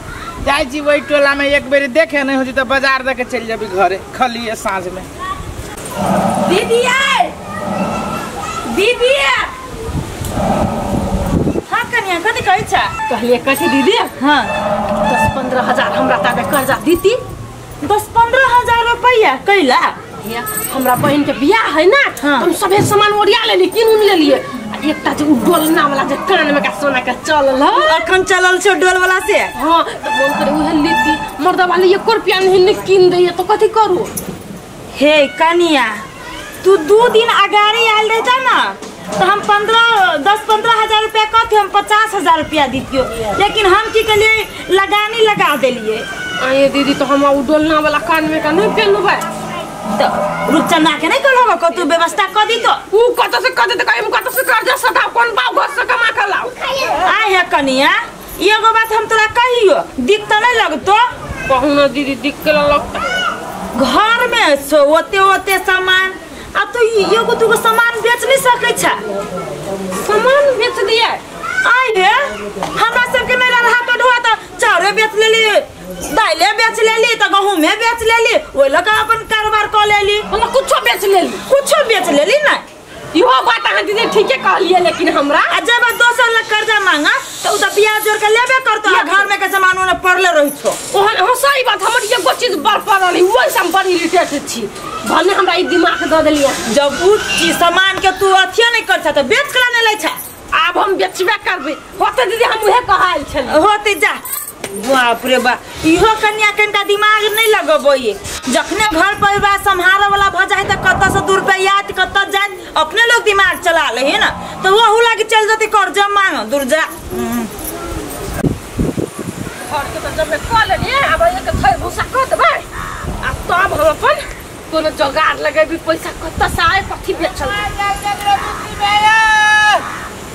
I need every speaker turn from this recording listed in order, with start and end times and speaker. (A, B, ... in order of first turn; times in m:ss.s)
0:00.4-0:05.1 A
0:06.4-0:07.3 B
0:08.7-0:09.5 B
0:11.7-0:12.9 C
0:13.1-0:14.1 B
0:14.2-0:14.5 C
0:15.1-0:17.2 B
0:17.8-0:20.0 C
0:20.2-0:28.0 B
0:22.2-0:22.5 C
0:27.7-0:29.5 C
0:29.6-0:34.1 B
0:35.0-0:36.0 C
0:36.6-0:46.1 C
0:46.4-0:49.2 B
0:49.9-0:52.8 C
0:52.9-0:57.2 B
0:57.0-1:01.1 C
1:01.5-1:03.1 B
1:03.8-1:09.0 C
1:10.0-1:11.2 B
1:11.6-1:20.3 C
1:20.3-1:21.4 B
1:21.5-1:22.6 C
1:23.1-1:25.6 B
1:25.5-1:30.8 C
1:28.9-1:29.3 B
1:30.9-1:36.7 B
1:36.7-1:40.2 C
1:40.5-1:43.6 B
1:43.5-1:57.5 C
1:59.6-2:02.7 B
2:03.2-2:07.6 B
2:07.2-2:09.8 A